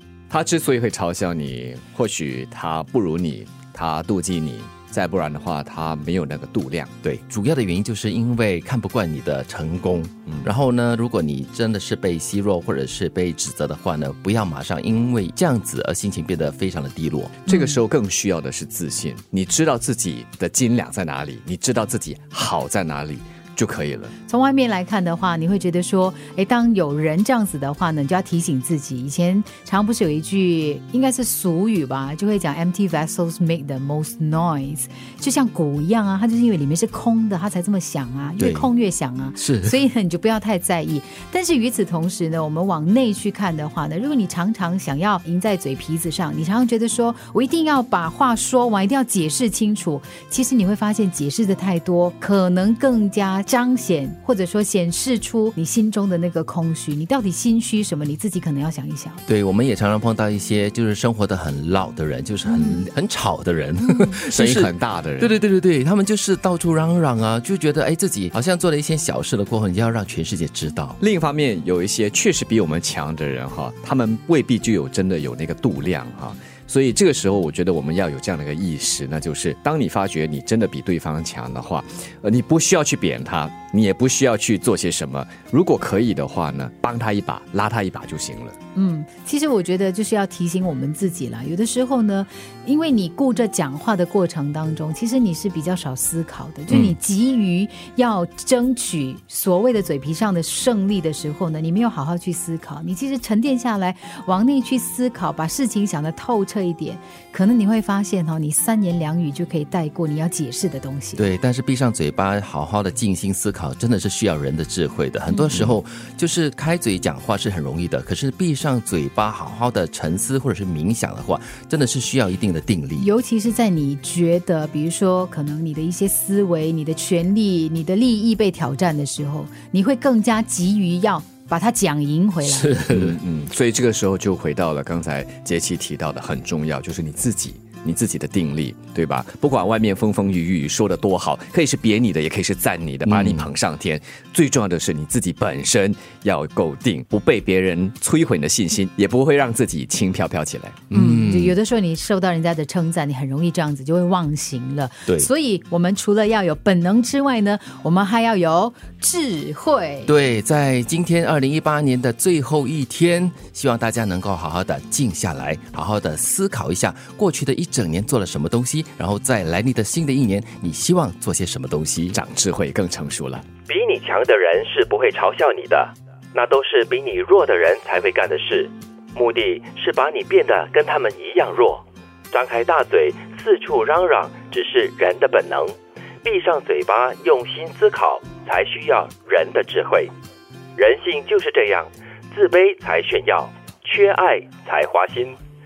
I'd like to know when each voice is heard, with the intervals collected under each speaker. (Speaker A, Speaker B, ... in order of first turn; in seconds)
Speaker A: 0.3-6.9, 17.8-24.1, 64.6-65.2, 71.0-88.5, 133.3-142.9, 143.6-150.8, 172.4-173.4
Speaker B: 7.0-17.4, 38.4-38.7, 39.4-39.8, 59.3-71.0, 111.2-123.1, 132.9-133.2, 143.1-143.5, 150.9-151.6, 160.1-172.2
Speaker C: 17.5-17.8, 24.3-59.2, 62.5-62.9, 63.8-64.2, 88.8-111.2, 115.3-115.7, 123.0-132.9, 150.9-160.1
Speaker D: 143.1-143.6, 173.7-190.1, 190.8-195.4